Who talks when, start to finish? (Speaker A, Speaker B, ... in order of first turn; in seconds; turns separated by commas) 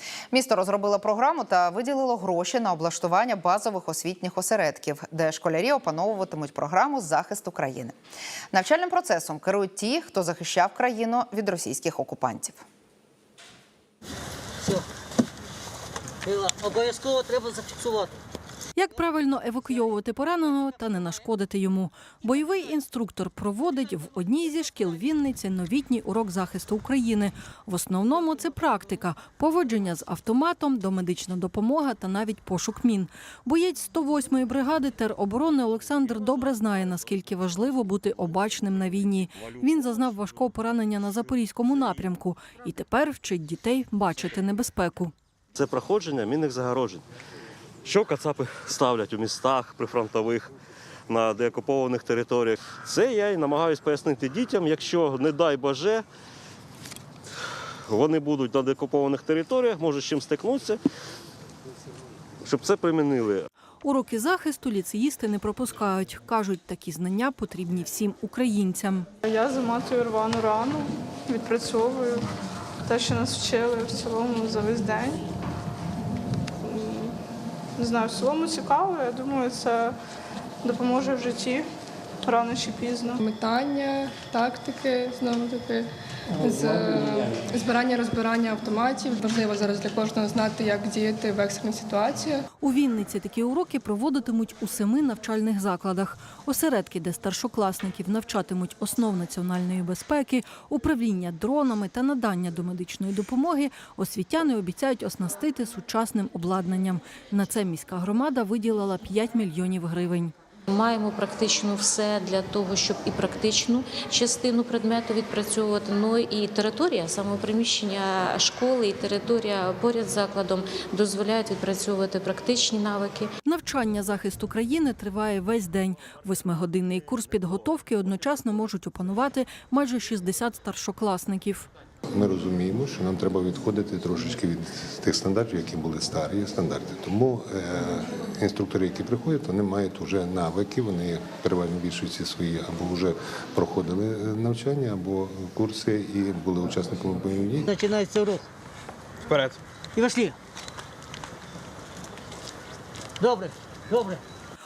Speaker A: 0.3-7.9, Speaker A: 8.5-12.6, Speaker B: 16.2-18.1, Speaker C: 18.7-45.1, Speaker D: 45.5-47.0, Speaker D: 47.8-50.5, Speaker D: 51.1-56.0, Speaker D: 57.9-60.8, Speaker D: 62.4-63.5, Speaker C: 63.8-69.1, Speaker E: 69.2-72.3, Speaker E: 72.8-75.2, Speaker E: 76.6-77.2, Speaker E: 77.8-80.0, Speaker E: 80.6-81.7, Speaker E: 82.2-83.2, Speaker F: 83.2-85.8, Speaker F: 86.4-92.4, Speaker C: 92.6-110.3, Speaker G: 110.7-123.3, Speaker C: 123.4-131.7, Speaker H: 132.1-147.7, Speaker B: 147.6-148.5, Speaker B: 149.9-150.4, Speaker B: 153.2-154.2